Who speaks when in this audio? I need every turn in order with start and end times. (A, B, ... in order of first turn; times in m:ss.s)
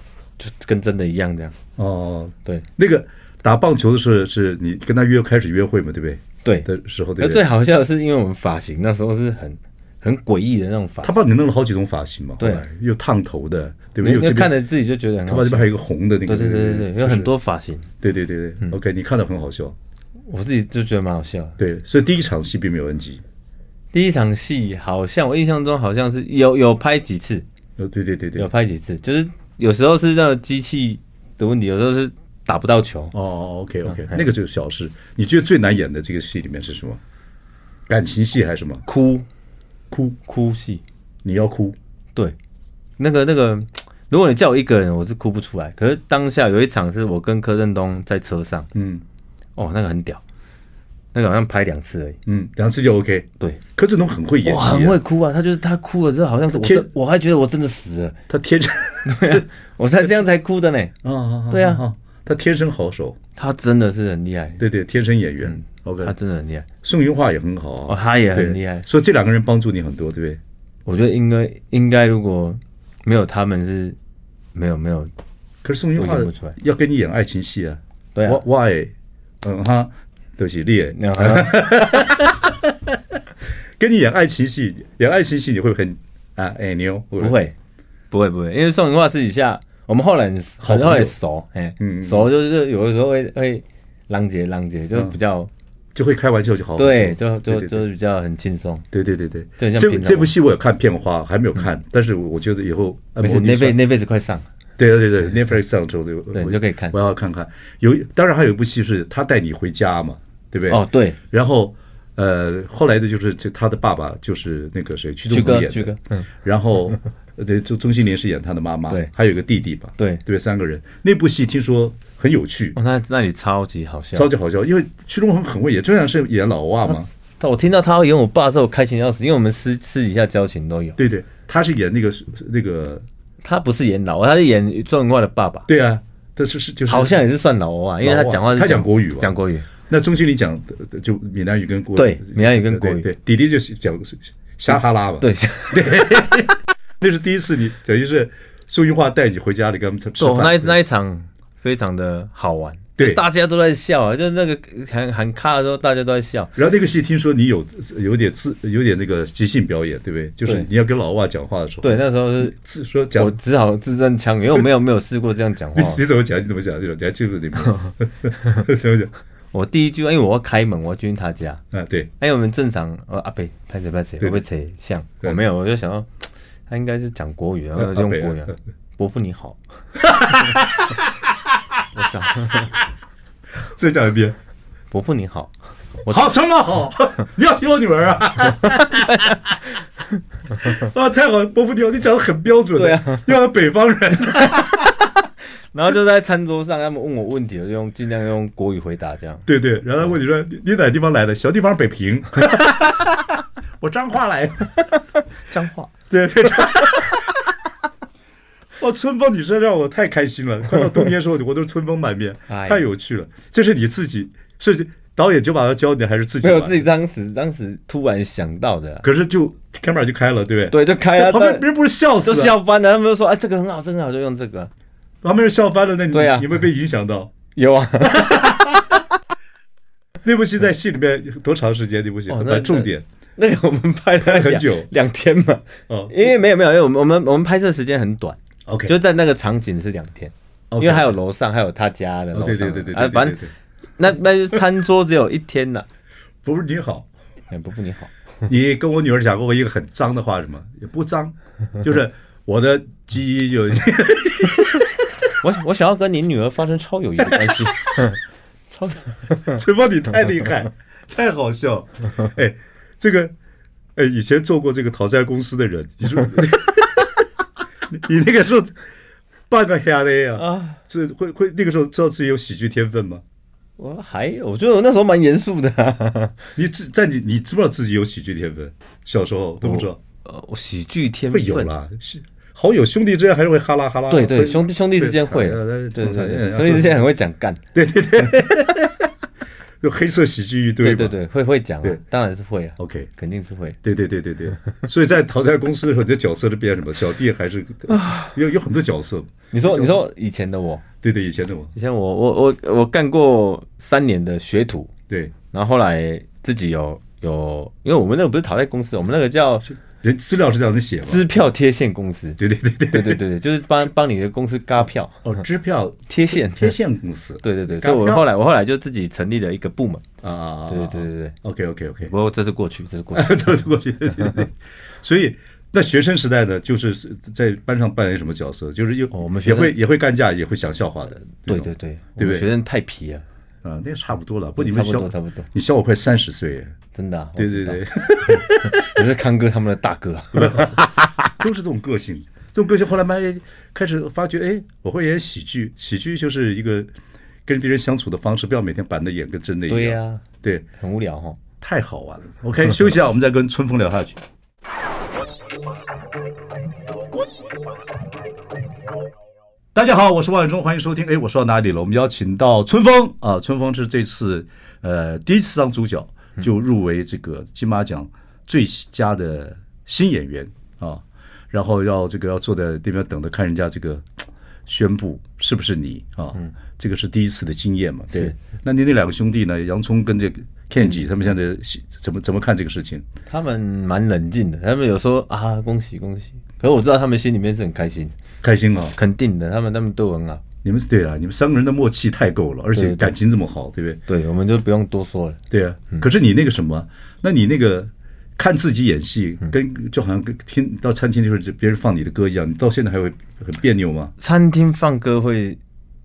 0:00.4-0:01.5 A
0:01.8-0:07.4 B
0:06.4-0:11.2 A
0:11.0-0:14.5 B
0:12.4-0:12.6 A
0:14.0-0:15.7 A
0:15.3-0:17.3 B
0:16.2-0:17.9 A
0:18.0-0:19.8 B
0:20.2-0:21.6 A
0:21.6-0:23.2 B
0:23.9-0:27.4 A
0:27.8-0:28.5 B
0:28.4-0:33.1 A
0:33.1-0:37.0 B
0:33.8-0:34.3 A
0:37.9-0:38.8 B
0:38.8-0:39.2 A
0:39.9-0:40.2 B
0:40.2-0:40.8 A
0:41.2-0:41.8 B
0:43.0-0:48.7 A
0:48.7-0:49.0 B
0:49.6-0:50.2 A
0:51.1-0:52.2 A
0:52.2-0:55.0 B
0:54.4-0:58.2 A
0:56.6-0:56.9 B
0:58.3-0:59.4 B
0:59.0-1:00.9 A
1:01.0-1:03.2 B
1:01.5-1:01.8 A
1:03.4-1:04.6 A
1:04.6-1:06.1 B
1:05.4-1:06.7 A
1:06.8-1:10.4 B
1:07.9-1:08.9 A
1:10.8-1:14.0 A
1:14.5-1:15.1 A
1:15.6-1:23.2 B
1:16.0-1:16.6 A
1:18.1-1:18.4 A
1:20.9-1:22.1 A
1:23.8-1:27.4 B
1:27.2-1:27.5 A
1:28.1-1:35.5 A
1:30.6-1:31.1 B
1:31.8-1:32.3 B
1:35.9-1:37.8 B
1:36.8-1:38.8 A
1:38.9-1:43.8 B
1:39.6-1:40.3 A
1:43.2-1:44.5 A
1:44.8-2:02.8 B
1:46.3-1:47.0 A
1:50.7-1:51.2 A
1:55.3-1:56.2 A
2:00.0-2:00.2 A
2:02.7-2:04.3 A
2:04.1-2:07.1 B
2:06.8-2:11.0 A
2:11.0-2:13.0 B
2:13.4-2:15.7 A
2:15.7-2:17.2 B
2:16.9-2:19.7 A
2:18.0-2:19.3 B
2:19.9-2:30.8 B
2:21.9-2:23.1 A
2:25.2-2:26.3 A
2:30.2-2:36.6 A
2:33.0-2:33.2 B
2:36.6-2:43.3 B
2:41.8-2:42.6 A
2:43.2-2:46.0 A
2:45.7-2:49.1 B
2:47.7-2:48.6 A
2:49.5-2:51.6 A
2:51.7-2:52.1 B
2:52.2-2:59.6 A
2:57.8-2:58.5 B
3:00.0-3:01.5 B
3:01.9-3:02.7 A
3:03.6-3:04.4 B
3:04.9-3:05.5 A
3:06.0-3:06.3 A
3:06.1-3:09.4 B
3:08.6-3:09.4 A
3:10.5-3:15.1 B
3:12.7-3:13.3 A
3:15.7-3:19.4 A
3:19.4-3:24.8 B
3:25.5-3:25.9 A
3:26.1-3:27.5 B
3:28.8-3:36.8 B
3:32.5-3:32.8 A
3:36.4-3:39.1 A
3:39.0-3:42.6 B
3:40.7-3:41.7 A
3:42.2-3:44.7 A
3:45.2-3:47.3 B
3:46.1-3:46.5 A
3:47.5-3:48.8 A
3:48.0-3:48.8 B
3:50.2-3:53.0 B
3:52.3-4:05.9 A
3:54.2-3:54.9 B
3:55.9-3:56.3 B
3:58.7-3:58.9 B
4:00.7-4:01.1 B
4:02.3-4:03.5 B
4:06.4-4:07.1 B
4:07.5-4:08.1 A
4:08.5-4:14.9 B
4:15.4-4:18.2 A
4:18.7-4:19.6 A
4:19.4-4:23.3 B
4:24.0-4:27.2 B
4:27.9-4:28.8 B
4:29.5-4:33.2 B
4:30.4-4:30.8 A
4:33.8-4:36.4 A
4:36.6-4:40.0 B
4:39.6-4:41.7 A
4:41.3-4:47.0 B
4:44.1-4:47.6 A
4:47.7-4:49.1 B
4:49.8-4:51.2 B
4:50.8-4:53.8 A
4:52.8-4:53.1 B
4:53.8-5:00.0 B
4:57.9-4:58.3 A
4:59.5-5:00.8 A
5:01.0-5:01.7 B
5:01.7-5:04.9 A
5:05.1-5:05.3 B
5:05.5-5:09.7 A
5:09.8-5:11.3 B
5:11.0-5:15.2 A
5:12.4-5:13.2 B
5:15.2-5:18.3 B
5:16.1-5:16.8 A
5:17.4-5:20.0 A
5:20.2-5:22.1 B
5:20.7-5:21.3 A
5:22.0-5:23.6 A
5:23.1-5:32.5 B
5:29.1-5:29.8 A
5:31.4-5:33.2 A
5:33.6-5:36.8 B
5:34.6-5:35.5 A
5:36.9-5:40.9 A
5:37.4-5:39.0 B
5:40.4-5:46.9 B
5:47.4-5:50.6 B
5:49.7-5:50.2 A
5:50.8-5:51.4 A
5:51.6-5:54.2 B
5:59.7-6:23.0 B
6:23.3-6:28.2 A
6:28.4-6:29.0 B
6:29.0-6:30.4 A
6:30.6-6:34.0 B
6:32.7-6:33.1 A
6:34.1-6:35.4 A
6:35.5-6:44.1 B
6:44.2-6:45.6 A